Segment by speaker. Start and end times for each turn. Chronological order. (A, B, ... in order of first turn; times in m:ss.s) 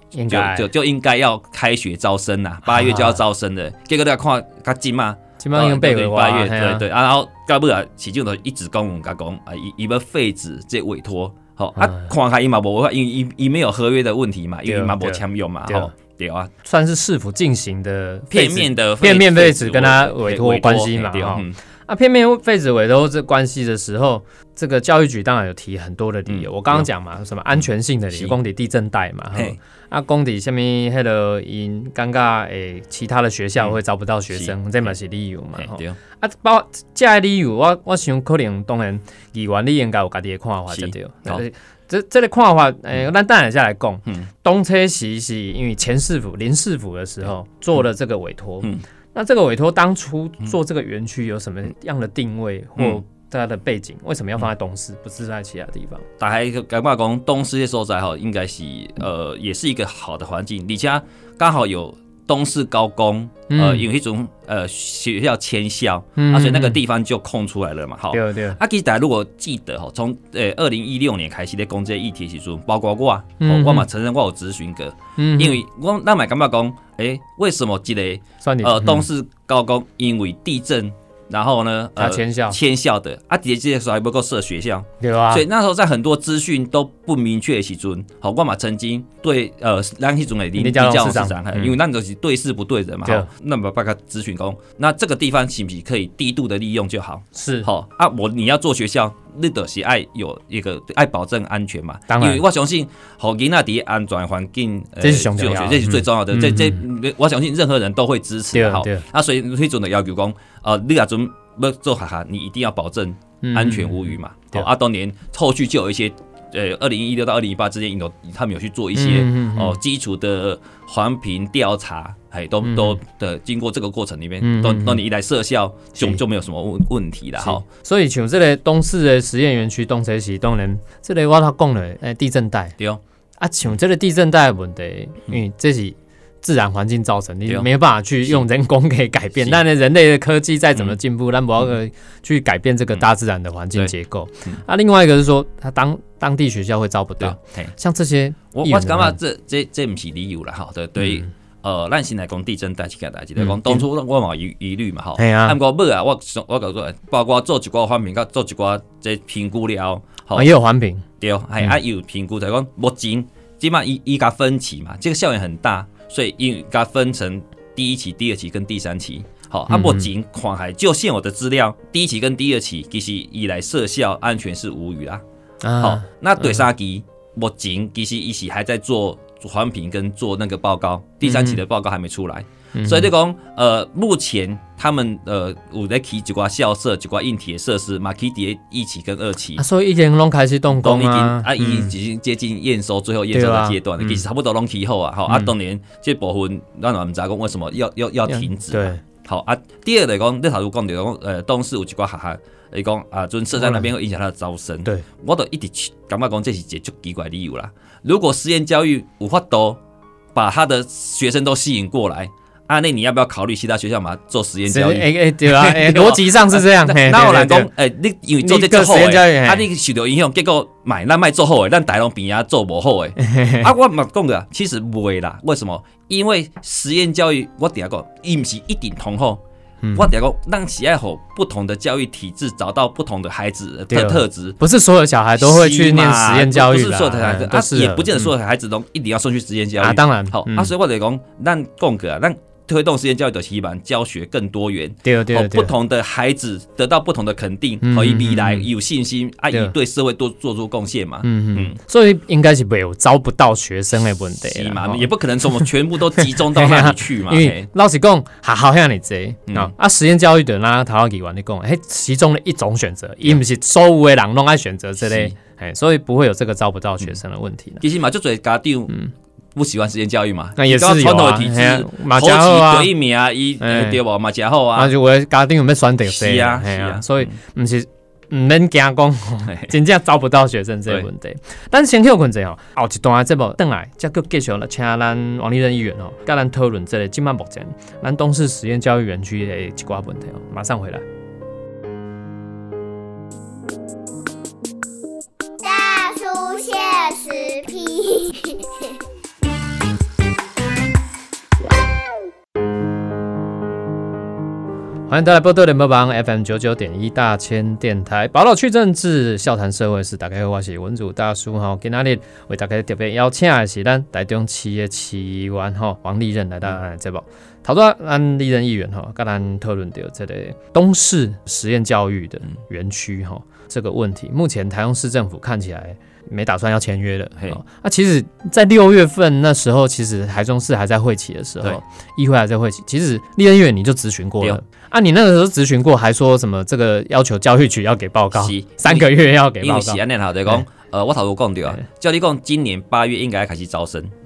0:00.1-0:00.7 A
0:00.3-0:16.5 B
0:02.7-0:03.2 A
0:05.4-0:06.8 A
0:11.8-0:12.1 A
0:14.6-0:15.9 A
0:16.6-0:56.0 A
0:18.3-0:21.6 B
0:26.3-0:26.9 B
0:35.6-0:36.0 B
0:40.7-0:41.4 B
0:56.2-2:07.6 B
1:03.5-1:03.9 A
1:06.2-1:06.8 A
1:08.1-1:08.6 A
1:13.4-1:13.9 A
1:15.2-1:15.6 A
1:18.4-1:19.0 A
1:22.0-1:22.6 A
1:25.0-1:25.4 A
1:30.6-1:31.7 A
1:37.3-1:37.7 A
1:42.1-1:42.4 A
1:45.0-1:46.8 A
1:48.5-1:49.0 A
1:53.4-1:54.7 A
1:58.9-1:59.8 A
2:02.6-2:03.0 A
2:04.4-2:05.0 A
2:06.0-2:06.2 A
2:07.4-2:12.8 A
2:13.4-2:29.2 A
2:27.2-2:27.7 B
2:28.5-2:40.5 B
2:31.0-2:31.3 A
2:33.4-2:33.8 A
2:35.2-2:35.6 A
2:40.3-2:41.0 A
2:41.2-2:55.2 B
2:49.7-2:50.1 A
2:55.6-2:56.6 A
2:55.8-3:09.6 B
3:01.2-3:01.6 A
3:02.7-3:03.1 A
3:09.6-3:11.9 A
3:10.8-3:29.8 B
3:13.3-3:14.2 A
3:18.3-3:19.0 A
3:23.6-3:23.9 A
3:30.3-3:49.4 B
3:34.7-3:37.7 A
3:38.4-3:39.6 A
3:43.2-3:43.7 A
3:49.8-3:50.1 A
3:49.9-3:54.6 B
3:53.9-3:58.3 A
3:55.4-4:11.8 B
3:59.8-4:00.7 A
4:05.0-4:05.7 A
4:07.8-4:08.7 A
4:11.2-4:27.8 A
4:14.4-4:17.7 B
4:19.5-4:19.7 B
4:25.0-4:25.3 B
4:27.8-4:28.9 B
4:29.5-4:34.9 B
4:30.6-4:32.9 A
4:33.6-4:34.0 A
4:34.7-4:51.0 A
4:36.0-4:37.3 B
4:55.6-4:58.8 C
5:05.1-5:40.6 A
5:38.3-5:44.1 B